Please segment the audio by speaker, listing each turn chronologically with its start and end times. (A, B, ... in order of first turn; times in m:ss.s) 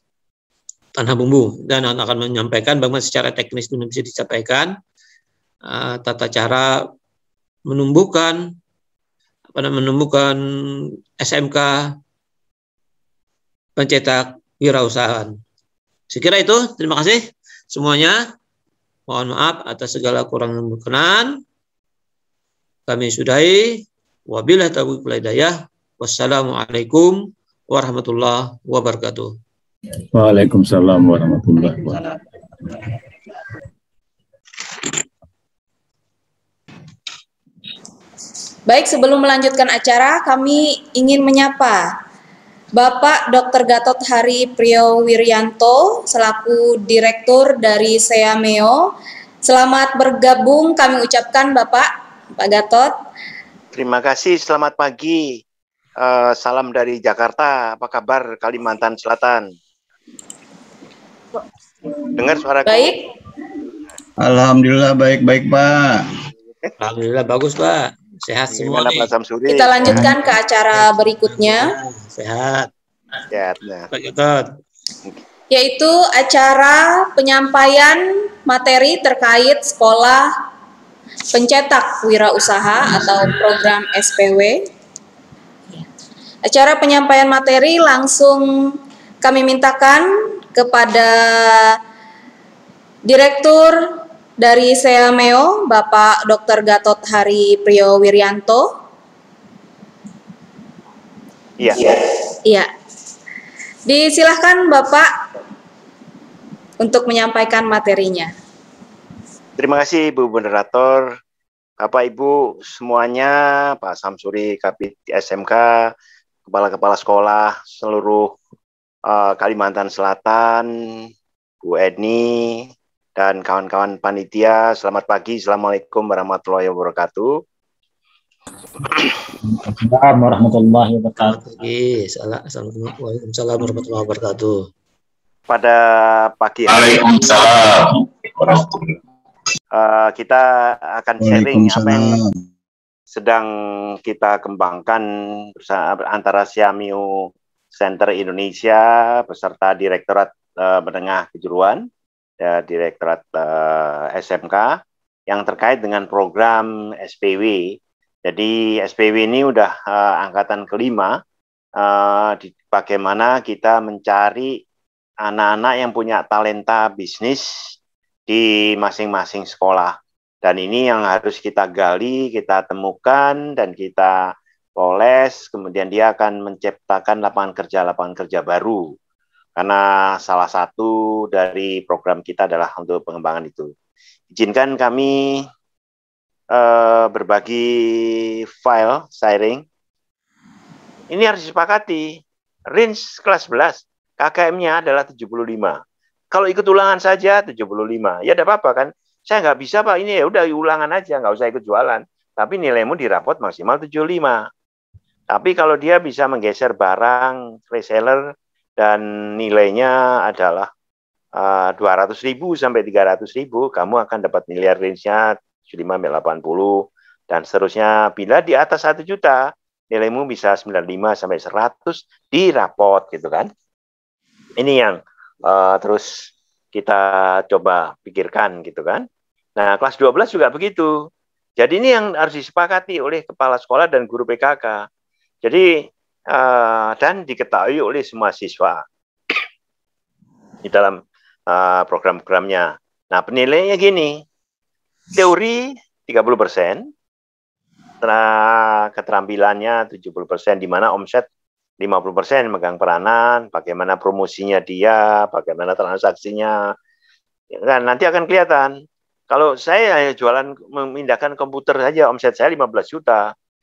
0:01.0-0:04.8 A
0:05.6-0:06.8 A
0:07.7-0:08.5 A
0:09.5-0:12.0 A
0:13.8-0:15.4 A
0:16.1-0:18.2 A
0:19.1-0:21.4 A
0:22.9-0:29.3 A
0:30.1-0:32.2 B
0:38.7-0:41.9 C
0:42.7-0:48.9 C
0:49.4-0:52.9 C
0:53.7-0:55.4 D
0:56.0-0:59.5 D
1:02.2-1:02.9 D
1:02.6-1:03.0 C
1:04.2-1:06.0 B
1:06.8-1:09.1 A
1:08.5-1:09.9 D
1:09.5-1:11.7 C
1:10.7-1:12.7 A
1:13.3-1:13.9 D
1:13.9-1:14.5 A
1:15.5-1:20.3 C
1:21.3-1:24.6 C
1:26.4-1:28.5 C
1:29.2-1:31.8 C
1:33.0-1:38.7 C
1:41.6-1:42.0 D
1:43.8-1:45.1 C
1:46.8-1:48.3 C
1:49.6-1:51.1 D
1:51.8-1:55.9 D
1:56.4-1:58.4 D
1:59.1-2:01.1 D
2:01.6-2:07.4 D
2:09.7-2:11.2 B
2:11.2-2:14.7 A
2:15.5-2:17.5 D
2:16.8-2:17.8 B
2:18.4-2:18.8 B
2:19.7-2:22.2 D
2:21.3-2:22.3 B
2:23.1-2:31.9 D
2:32.4-2:34.8 D
2:35.3-2:41.2 D
2:41.8-2:44.6 D
2:45.2-2:47.7 D
2:48.3-2:54.2 D
2:54.8-2:58.9 D
2:59.6-3:03.7 D
3:04.3-3:05.4 D
3:06.5-3:09.6 D
3:11.1-3:15.8 D
3:16.3-3:24.4 D
3:25.3-3:28.2 D
3:28.8-3:30.7 D
3:31.4-3:43.5 D
3:44.6-3:49.0 D
3:49.6-3:50.9 D
3:51.6-3:54.8 D
3:55.4-3:59.4 D
4:00.6-4:04.2 D
4:05.1-4:06.9 D
4:08.0-4:11.3 D
4:11.8-4:16.5 D
4:17.6-4:18.7 D
4:19.3-4:23.3 D